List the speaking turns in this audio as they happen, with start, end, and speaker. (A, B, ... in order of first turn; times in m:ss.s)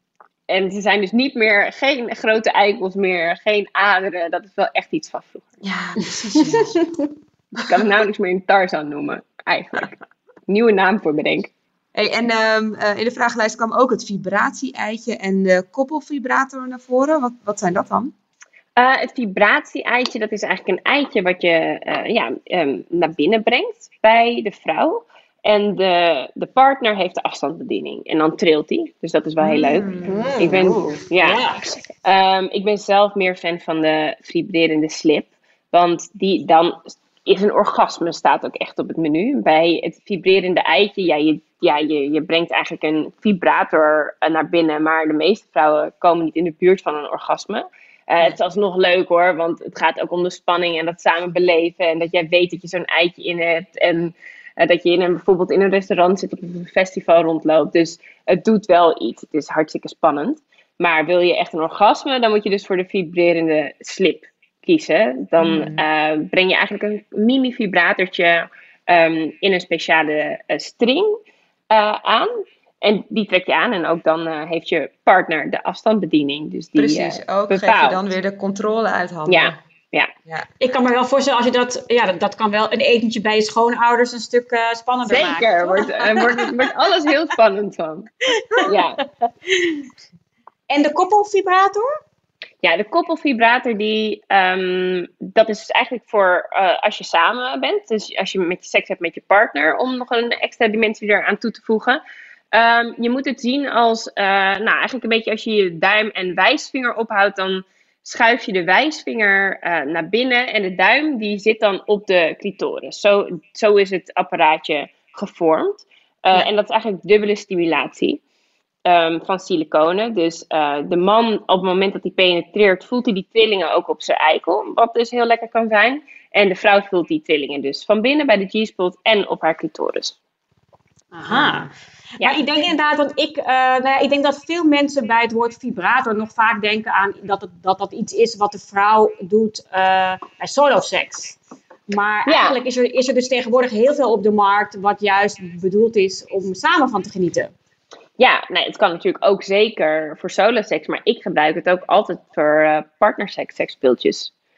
0:00.5-0:05.5 A
0:05.6-0:06.8 B
0:07.6-0:10.0 A
0:10.5-0:11.5 A
0:11.9-0:18.1 B
0:18.8-0:31.5 A
0:29.4-0:30.3 B
0:30.0-0:31.7 C
0:32.0-1:11.2 A
1:05.4-1:05.8 B
1:11.7-1:18.0 A
1:16.8-1:19.6 B
1:19.3-1:20.1 A
1:20.6-1:26.5 C
1:25.1-1:28.1 A
1:28.6-1:29.0 A
1:29.5-1:29.8 C
1:30.7-1:31.9 C
1:32.6-1:42.0 A
1:42.5-1:58.2 A
1:58.9-2:10.2 A
2:11.1-2:27.5 C
2:22.3-2:22.6 A
2:28.2-2:34.3 A